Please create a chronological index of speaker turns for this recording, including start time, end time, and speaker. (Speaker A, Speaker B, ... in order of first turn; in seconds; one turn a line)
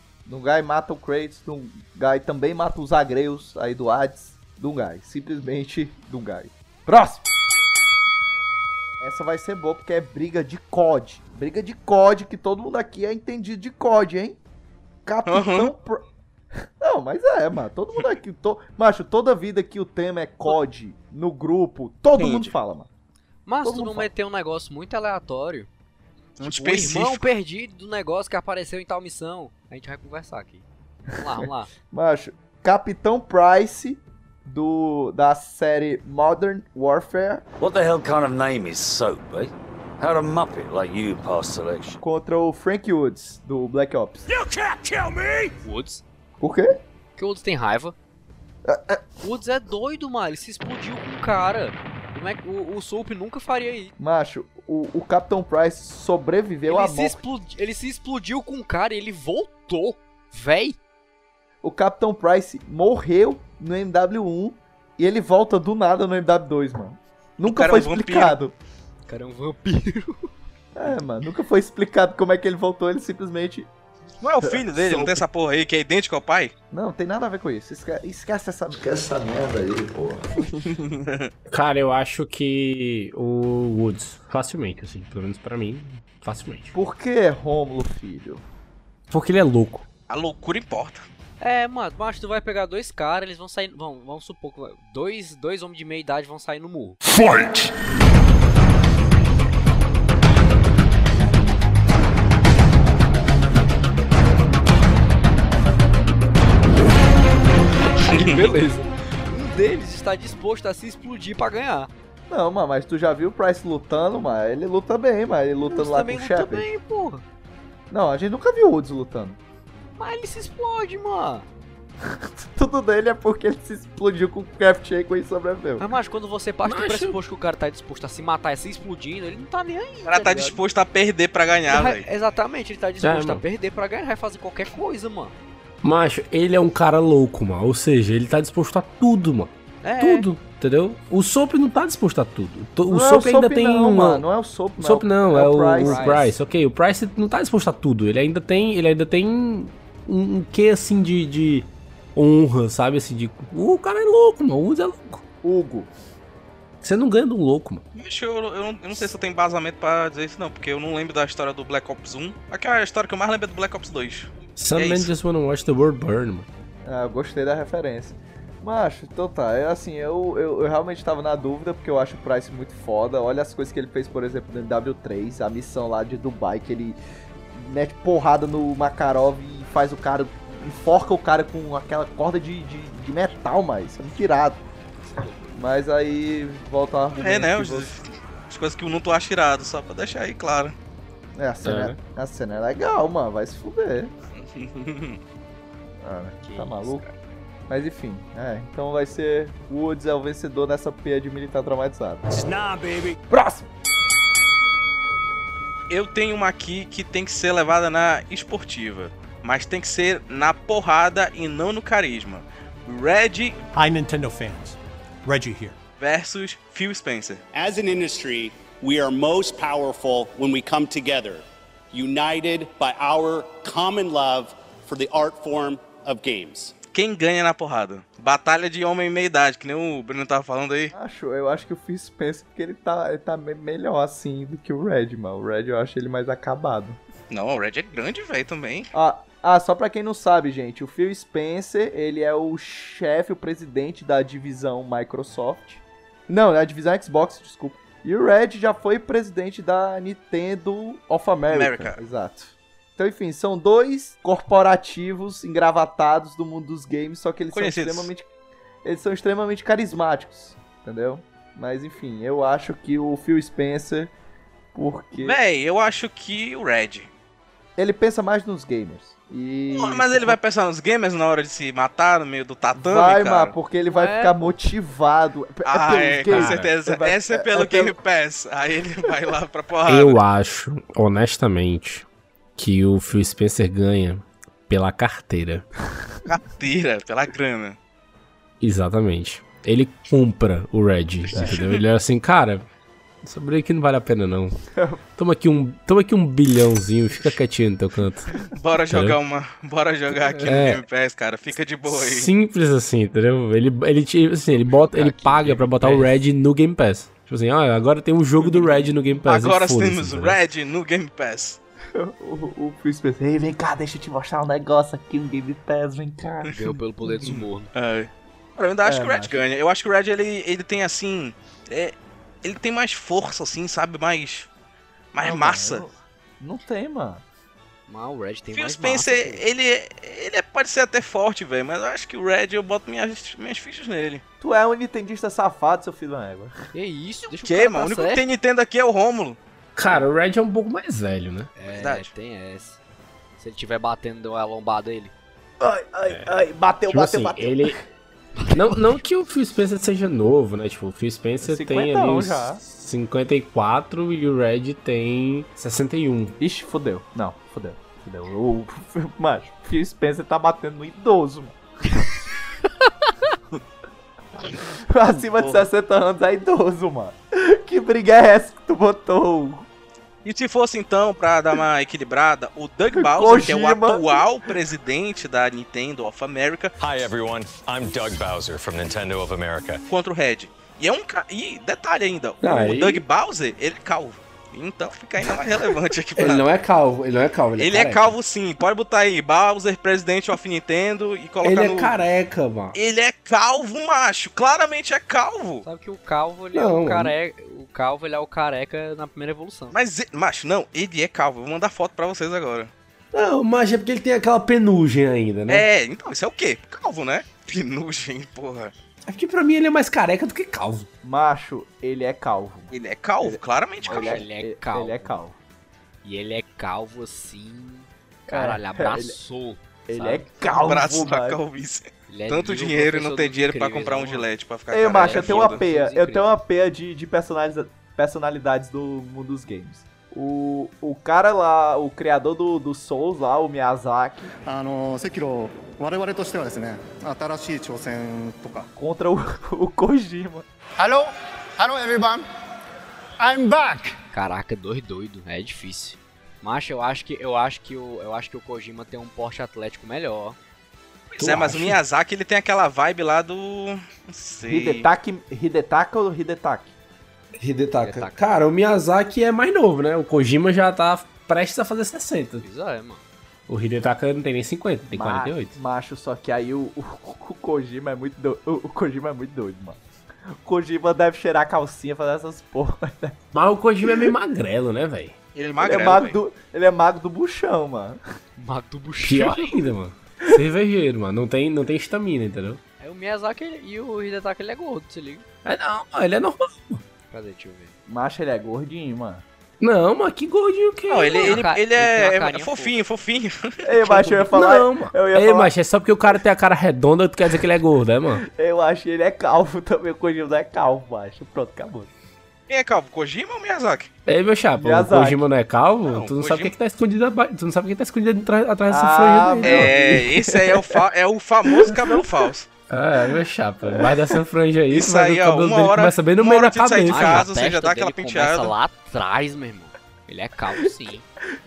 Speaker A: 0.3-7.2
Speaker A: 9.0-14.4
Speaker A: 15.1-16.0
Speaker B: 15.3-15.7
Speaker A: 16.8-22.9
Speaker B: 22.1-22.5
Speaker C: 23.5-25.7
Speaker A: 23.6-24.1
Speaker B: 26.4-27.3
Speaker C: 26.4-30.6
Speaker C: 31.2-31.7
Speaker A: 31.2-37.4
Speaker D: 37.6-42.0
Speaker A: 42.0-44.3
Speaker D: 44.3-45.5
Speaker C: 45.6-46.0
Speaker A: 46.4-46.7
Speaker C: 47.2-48.0
Speaker A: 48.7-49.0
Speaker C: 49.2-53.9
Speaker A: 54.0-57.2
Speaker C: 56.7-60.8
Speaker A: 61.6-68.5
Speaker B: 67.5-68.4
Speaker C: 69.1-70.3
Speaker A: 70.8-73.7
Speaker B: 74.2-76.5
Speaker A: 74.4-75.2
Speaker A: 76.7-80.6
Speaker B: 80.7-81.3
Speaker E: 81.5-86.8
Speaker A: 86.7-88.4
Speaker E: 89.1-89.9
Speaker B: 90.1-91.0
Speaker C: 91.4-97.0
Speaker D: 97.1-97.4
Speaker C: 108.0-111.9
Speaker B: 108.1-108.6
Speaker A: 112.3-116.7
Speaker C: 115.7-117.2
Speaker A: 117.9-119.4
Speaker C: 120.0-121.5
Speaker A: 122.0-125.9
Speaker C: 125.8-130.6
Speaker E: 126.7-127.2
Speaker B: 130.1-132.1
Speaker C: 131.7-135.3
Speaker E: 133.0-133.4
Speaker E: 135.8-144.3
Speaker C: 139.8-140.3
Speaker A: 142.9-146.2
Speaker E: 144.8-155.2
Speaker C: 145.8-146.3
Speaker A: 155.4-155.9
Speaker E: 156.8-157.8
Speaker B: 157.9-165.1
Speaker E: 164.6-166.5
Speaker A: 166.8-177.0
Speaker A: 177.5-184.6
Speaker A: 185.5-187.9
Speaker B: 187.2-190.7
Speaker A: 191.4-194.1
Speaker E: 191.6-192.0
Speaker B: 194.4-195.2
Speaker A: 196.0-197.1
Speaker C: 196.4-197.1
Speaker A: 197.7-202.3
Speaker D: 202.3-203.2
Speaker A: 203.3-203.7
Speaker B: 205.9-213.6
Speaker F: 213.7-215.8
Speaker B: 216.0-217.4
Speaker G: 217.5-226.7
Speaker B: 226.9-230.9
Speaker A: 230.9-237.0
Speaker B: 237.3-238.9
Speaker A: 238.9-258.3
Speaker B: 251.5-252.0
Speaker B: 257.5-258.1
Speaker A: 258.8-264.1
Speaker A: 264.7-265.4
Speaker B: 265.2-267.1
Speaker A: 267.8-270.4
Speaker B: 269.7-273.5
Speaker A: 272.7-277.9
Speaker C: 273.9-274.6
Speaker B: 275.6-280.2
Speaker E: 276.3-276.7
Speaker E: 279.9-282.1
Speaker E: 282.6-285.6
Speaker B: 286.3-287.8
Speaker E: 288.6-292.7
Speaker B: 291.4-291.8
Speaker E: 293.2-294.6
Speaker A: 294.7-295.0
Speaker E: 295.2-298.3
Speaker B: 298.5-302.3
Speaker E: 298.9-299.2
Speaker E: 300.4-300.8
Speaker E: 301.9-310.4
Speaker C: 304.6-306.1
Speaker B: 308.4-311.6
Speaker A: 311.9-317.3
Speaker C: 316.5-317.7
Speaker B: 317.2-324.5
Speaker A: 318.9-319.4
Speaker B: 325.1-325.9
Speaker A: 325.2-327.2
Speaker C: 327.9-329.4
Speaker B: 328.5-334.2
Speaker A: 334.4-336.5
Speaker C: 336.7-338.2
Speaker B: 337.4-339.4
Speaker E: 339.8-341.5
Speaker C: 341.6-342.8
Speaker B: 341.7-342.1
Speaker C: 343.4-345.1
Speaker A: 345.6-347.9
Speaker E: 346.1-347.8
Speaker C: 348.4-348.9
Speaker E: 348.5-356.4
Speaker A: 351.4-352.6
Speaker A: 356.4-361.6
Speaker A: 364.9-369.7
Speaker B: 365.4-365.7
Speaker B: 370.2-376.8
Speaker A: 372.9-374.2
Speaker H: 376.8-379.8
Speaker B: 379.9-386.5
Speaker E: 382.4-383.0
Speaker E: 386.2-388.1
Speaker B: 387.6-391.9
Speaker E: 391.4-392.8
Speaker B: 392.7-395.6
Speaker C: 395.6-399.8
Speaker E: 396.5-397.1
Speaker B: 399.7-402.7
Speaker E: 403.1-405.7
Speaker B: 405.5-408.7
Speaker E: 409.1-410.9
Speaker A: 411.0-415.4
Speaker B: 412.7-414.2
Speaker C: 413.8-415.1
Speaker C: 416.0-420.3
Speaker A: 418.3-419.2
Speaker A: 419.9-421.4
Speaker B: 420.4-425.6
Speaker C: 422.1-424.3
Speaker A: 424.7-434.3
Speaker C: 425.0-426.3
Speaker I: 434.4-438.7
Speaker A: 438.8-440.4
Speaker I: 440.8-442.3
Speaker I: 443.2-443.9
Speaker C: 444.1-450.4
Speaker E: 451.1-451.8
Speaker B: 451.2-454.9
Speaker A: 454.5-456.8
Speaker E: 457.4-462.4
Speaker C: 457.8-458.2
Speaker C: 462.4-463.0
Speaker E: 463.5-465.6
Speaker A: 464.9-469.8
Speaker A: 470.4-473.2
Speaker E: 473.3-475.2
Speaker B: 475.4-476.2
Speaker A: 475.6-478.0
Speaker C: 478.4-479.6
Speaker E: 479.0-482.6
Speaker C: 482.8-485.2
Speaker E: 485.4-486.8
Speaker C: 487.1-487.8
Speaker A: 487.9-489.2
Speaker E: 489.6-491.4
Speaker B: 490.9-494.2
Speaker C: 491.2-492.7
Speaker A: 493.6-495.5
Speaker E: 494.3-498.2
Speaker A: 498.4-501.9
Speaker B: 502.5-503.9
Speaker E: 504.1-509.8
Speaker A: 504.6-505.2
Speaker B: 505.9-506.5
Speaker A: 508.7-510.8
Speaker B: 509.4-512.5
Speaker A: 511.5-512.1
Speaker E: 512.7-517.3
Speaker A: 513.7-514.2
Speaker B: 514.7-518.5
Speaker C: 516.9-521.0